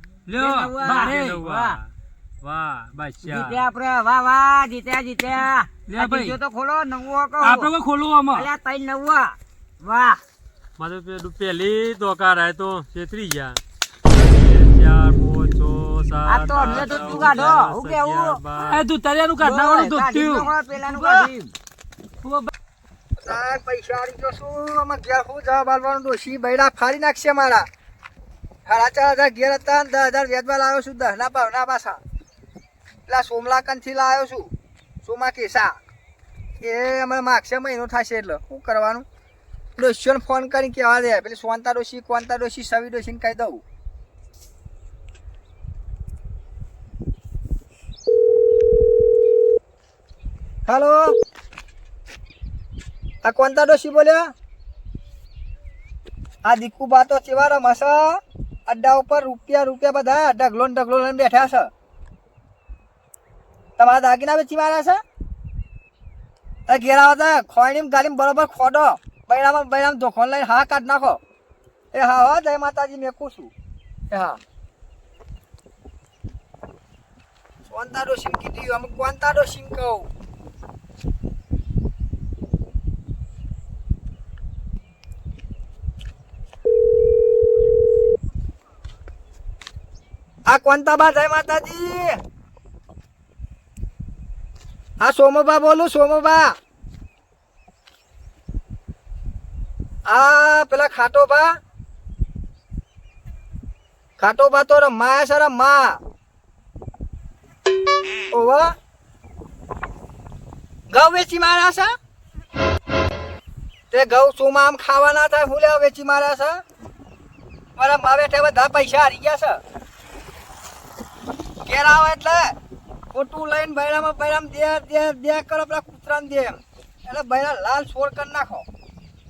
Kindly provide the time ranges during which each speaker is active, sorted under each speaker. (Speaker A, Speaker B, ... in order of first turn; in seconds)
Speaker A: 0.3-1.4, 5.9-6.4, 7.4-8.5, 18.6-21.3, 22.2-22.5
Speaker B: 0.4-1.8, 3.2-7.7, 8.3-10.2, 16.3-18.4, 19.4-21.5
Speaker C: 0.8-3.6, 10.8-18.8
Speaker D: 23.2-27.7, 28.7-32.0, 33.1-34.5, 35.0-35.8, 36.6-39.1, 39.8-43.6, 50.7-51.1, 53.2-54.3, 56.5-61.7, 63.8-65.0, 66.7-71.2, 71.9-73.5, 74.1-74.4, 77.7-80.1, 90.5-92.2, 95.0-96.5, 100.1-101.5, 104.2-106.0, 108.3-108.7, 110.9-111.9, 113.9-116.6, 117.8-119.6, 121.7-122.6, 123.1-128.7